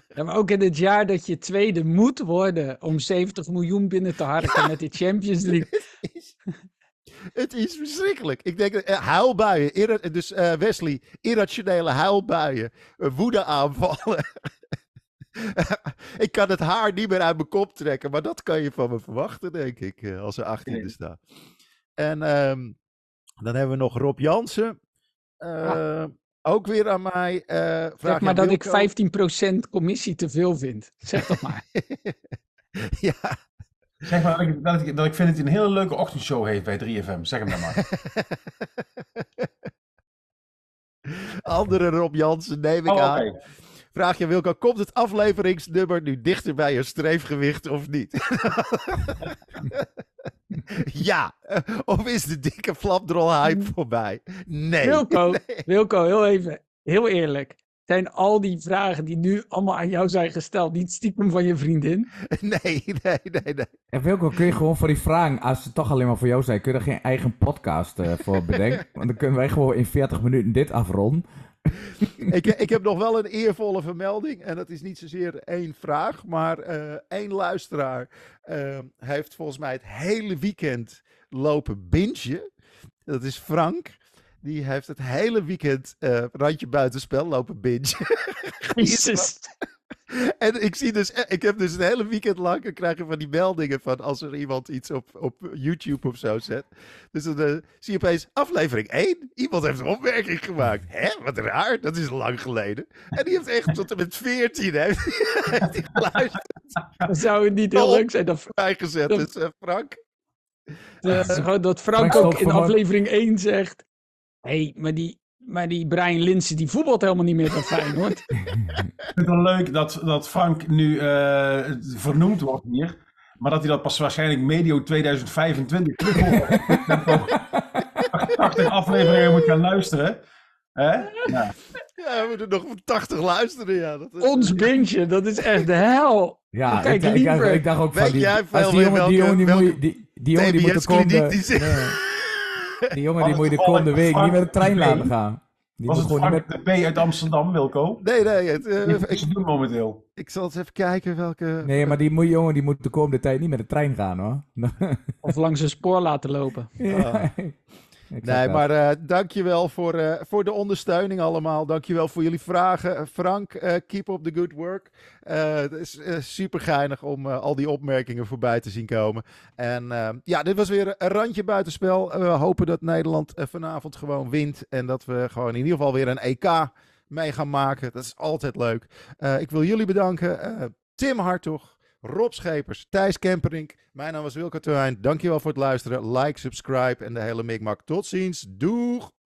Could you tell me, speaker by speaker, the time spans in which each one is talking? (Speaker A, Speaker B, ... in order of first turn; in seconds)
Speaker A: 0.1-5.7, 28.0-31.6, 54.8-62.1, 88.8-89.5, 107.0-108.5, 111.0-113.8, 114.4-118.2, 134.2-137.6, 155.2-156.7
Speaker B: 5.7-6.3, 7.3-14.5, 15.3-21.2, 22.0-22.8, 23.4-24.8, 25.4-28.9, 31.7-32.2, 32.8-33.4, 37.7-38.4, 41.1-43.2, 43.9-49.9, 50.7-55.6, 62.3-63.7, 72.2-82.5, 83.1-89.3, 90.1-106.8, 107.7-110.0, 111.0-111.5, 128.6-129.2, 132.0-134.7, 137.9-139.8, 140.3-142.9, 148.0-149.2, 150.2-152.0, 156.9-157.3, 158.2-189.1
Speaker C: 34.0-37.8, 42.9-43.3, 119.1-127.4, 128.1-130.2, 130.8-131.5, 143.2-145.1, 145.9-148.0, 148.8-150.0
Speaker D: 63.9-71.2, 111.9-112.8, 118.5-118.9, 126.5-128.1, 136.5-142.0, 142.9-146.5, 151.6-155.1, 156.8-157.5, 158.1-158.6